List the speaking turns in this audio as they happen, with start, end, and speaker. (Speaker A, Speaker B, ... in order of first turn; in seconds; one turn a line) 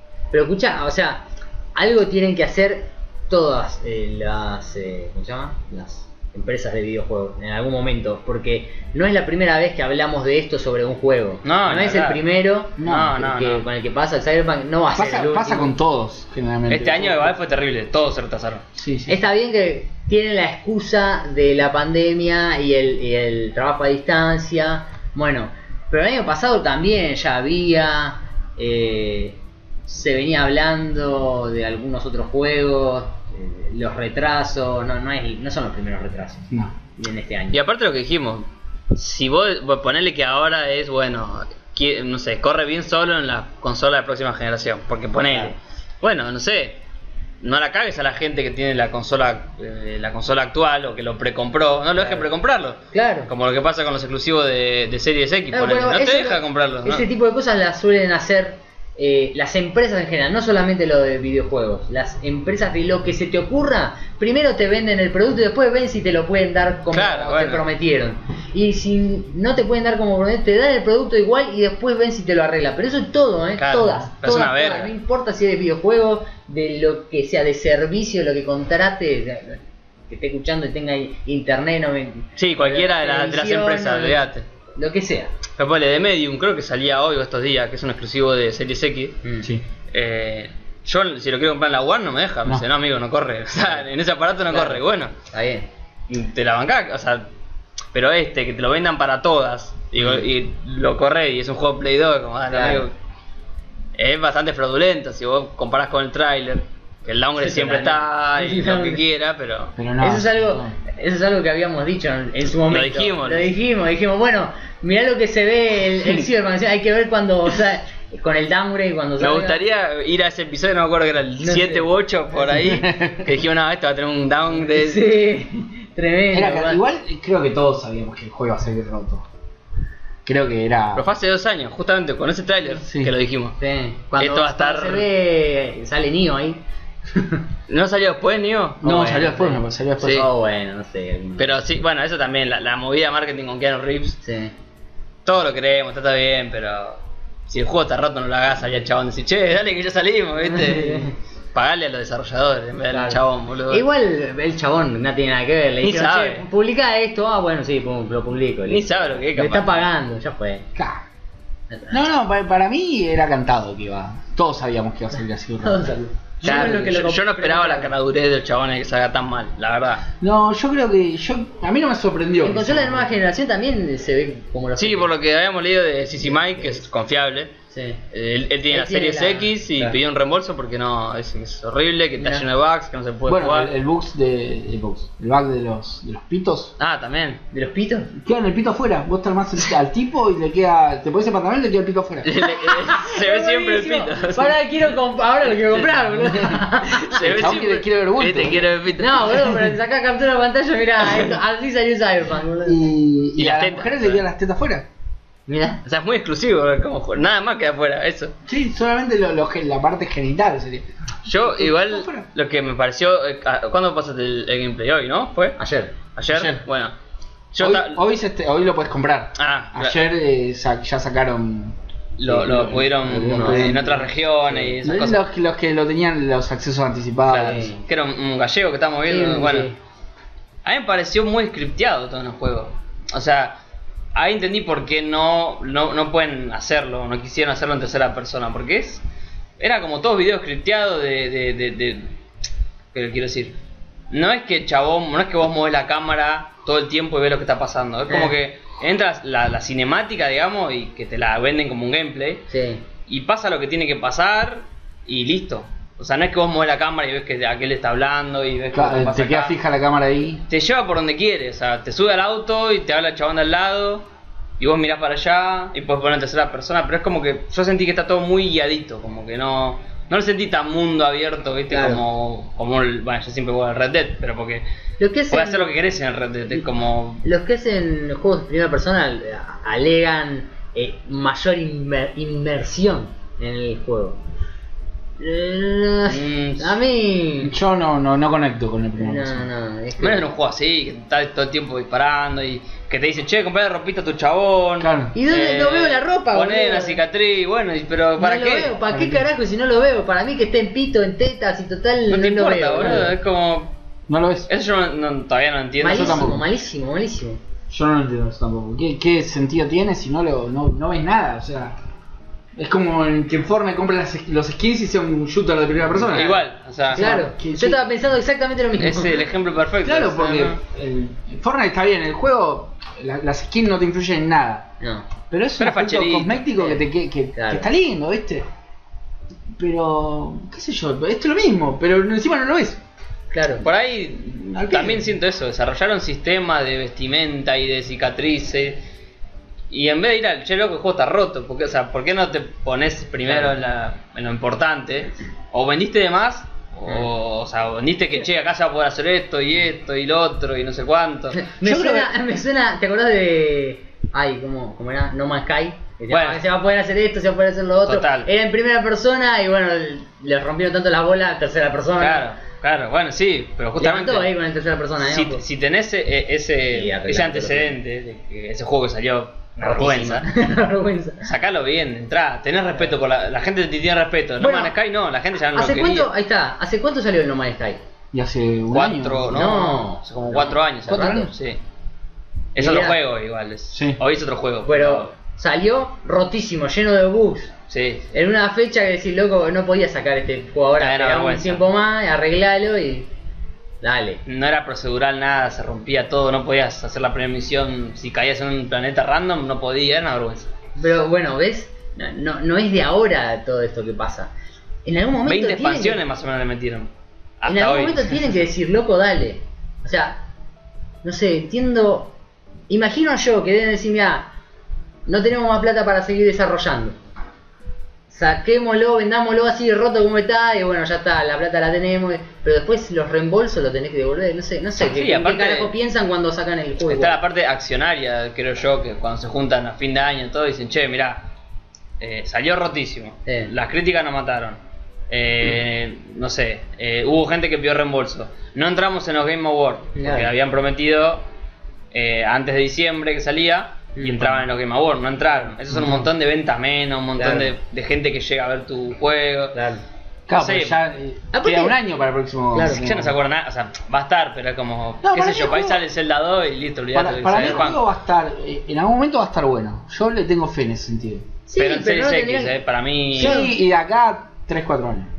Speaker A: 0.3-15.8
Speaker B: 11.4-12.2
Speaker C: 12.8-13.2
Speaker B: 12.8-13.7
Speaker C: 14.9-17.3
Speaker B: 16.7-18.6
Speaker C: 18.7-19.2
Speaker A: 19.1-37.6
Speaker B: 37.5-46.8
Speaker A: 45.2-45.5
Speaker B: 47.4-57.0
Speaker A: 52.0-52.2
Speaker A: 52.9-53.3
Speaker A: 55.5-84.2
Speaker B: 66.9-67.7
Speaker B: 73.6-74.9
Speaker B: 82.4-84.4
Speaker A: 84.7-85.3
Speaker B: 85.6-89.2
Speaker A: 89.2-89.5
Speaker B: 89.9-95.1
Speaker A: 94.5-95.7
Speaker B: 96.1-97.3
Speaker B: 97.9-102.9
Speaker A: 102.5-102.8
Speaker B: 104.0-109.8
Speaker A: 107.4-109.0
Speaker C: 109.8-110.7
Speaker A: 110.0-119.6
Speaker B: 112.7-113.5
Speaker B: 119.2-125.1
Speaker A: 121.4-121.9
Speaker C: 122.5-123.3
Speaker A: 124.6-126.8
Speaker C: 126.3-129.2
Speaker C: 130.2-131.1
Speaker B: 130.9-133.6
Speaker C: 132.8-133.1
Speaker A: 133.6-136.6
Speaker B: 134.2-135.1
Speaker A: 137.1-137.4
Speaker B: 137.7-139.0
Speaker C: 138.8-140.2
Speaker A: 138.8-141.6
Speaker B: 140.0-140.3
Speaker B: 141.4-144.2
Speaker A: 144.2-144.5
Speaker B: 145.2-153.8
Speaker A: 150.5-151.1
Speaker A: 152.9-160.7
Speaker B: 155.8-156.4
Speaker B: 158.7-159.8
Speaker C: 160.8-161.0
Speaker A: 161.7-162.0
Speaker C: 161.9-166.0
Speaker A: 165.6-167.9
Speaker B: 166.4-170.0
Speaker C: 170.2-173.1
Speaker A: 172.4-175.1
Speaker B: 174.8-177.5
Speaker A: 176.2-176.8
Speaker A: 177.7-178.0
Speaker B: 178.1-183.7
Speaker A: 178.7-180.0
Speaker A: 182.2-182.4
Speaker C: 183.3-186.7
Speaker B: 186.8-187.4
Speaker A: 187.5-188.1
Speaker C: 188.2-192.3
Speaker B: 192.2-194.6
Speaker A: 192.4-197.3
Speaker B: 196.9-199.6
Speaker C: 197.2-198.7
Speaker A: 199.0-202.8
Speaker C: 202.6-204.8
Speaker B: 203.4-204.2
Speaker A: 205.5-205.8
Speaker B: 205.8-208.3
Speaker C: 208.5-212.3
Speaker B: 211.2-215.6
Speaker A: 215.6-215.9
Speaker B: 216.1-216.9
Speaker C: 216.3-216.6
Speaker B: 217.5-218.0
Speaker C: 217.6-223.9
Speaker B: 219.4-220.0
Speaker B: 222.2-225.2
Speaker A: 223.2-224.7
Speaker C: 224.8-227.7
Speaker B: 227.3-229.7
Speaker A: 227.3-227.8
Speaker A: 229.1-229.8
Speaker B: 230.6-233.6
Speaker B: 234.1-239.0
Speaker B: 239.6-242.1
Speaker B: 242.9-243.5
Speaker B: 244.1-252.4
Speaker A: 252.5-252.8
Speaker B: 253.1-259.5
Speaker C: 258.7-260.4
Speaker B: 260.5-264.0
Speaker B: 264.6-274.6
Speaker A: 271.7-272.0
Speaker A: 275.0-275.7
Speaker B: 275.3-277.2
Speaker A: 277.2-284.2
Speaker A: 285.2-287.5
Speaker B: 286.1-286.8
Speaker C: 287.4-289.5
Speaker A: 289.0-290.2
Speaker B: 290.0-298.7
Speaker C: 294.8-295.1
Speaker A: 295.1-297.0
Speaker A: 298.2-303.1
Speaker C: 298.9-299.2
Speaker B: 302.1-303.7
Speaker C: 304.1-304.5
Speaker B: 304.5-306.3
Speaker A: 305.8-307.4
Speaker C: 305.9-306.4
Speaker C: 307.7-311.8
Speaker C: 312.6-316.4
Speaker A: 316.1-316.4
Speaker B: 316.1-317.2
Speaker C: 316.9-317.8
Speaker A: 316.9-319.2
Speaker B: 318.8-320.6
Speaker C: 319.8-324.7
Speaker A: 324.8-325.1
Speaker C: 325.3-328.4
Speaker B: 325.6-326.4
Speaker A: 326.6-326.8
Speaker A: 327.3-327.7
Speaker C: 329.6-332.8
Speaker A: 333.3-333.6
Speaker B: 333.6-338.8
Speaker C: 334.5-335.1
Speaker B: 339.7-351.4
Speaker A: 351.3-362.3
Speaker C: 351.6-352.1
Speaker B: 356.1-356.4
Speaker B: 357.8-358.3
Speaker B: 362.0-364.3
Speaker A: 363.8-365.4
Speaker B: 365.0-370.3
Speaker A: 366.7-367.8
Speaker A: 369.6-371.3
Speaker B: 371.2-376.1
Speaker A: 374.4-374.7
Speaker A: 375.5-377.8
Speaker C: 378.1-379.4
Speaker B: 378.7-381.6
Speaker A: 379.3-381.3
Speaker C: 380.9-381.3
Speaker B: 382.5-385.1
Speaker A: 382.6-383.0
Speaker C: 383.7-384.0
Speaker A: 384.6-387.5
Speaker B: 387.7-388.1
Speaker A: 388.1-393.1
Speaker B: 390.8-391.6
Speaker A: 393.8-394.2
Speaker B: 394.2-400.5
Speaker A: 400.8-404.3
Speaker A: 404.8-406.0
Speaker B: 405.2-406.9
Speaker B: 407.4-408.1
Speaker A: 407.5-410.2
Speaker A: 411.0-412.1
Speaker A: 412.7-414.3
Speaker A: 415.1-416.9
Speaker A: 418.1-427.2
Speaker B: 424.8-425.7
Speaker B: 426.9-431.3
Speaker B: 432.0-434.6
Speaker A: 433.2-433.5
Speaker B: 435.1-441.2
Speaker A: 439.9-440.3
Speaker B: 441.9-449.6
Speaker A: 443.9-444.4
Speaker C: 445.7-446.1
Speaker A: 447.2-447.5
Speaker A: 449.5-449.8
Speaker C: 450.3-453.2
Speaker B: 450.4-450.8
Speaker A: 451.3-451.8
Speaker A: 452.5-453.0
Speaker B: 452.6-457.8
Speaker C: 455.0-455.8
Speaker C: 456.9-461.2
Speaker A: 461.5-462.6
Speaker B: 461.6-463.4
Speaker C: 463.1-465.1
Speaker A: 463.1-463.5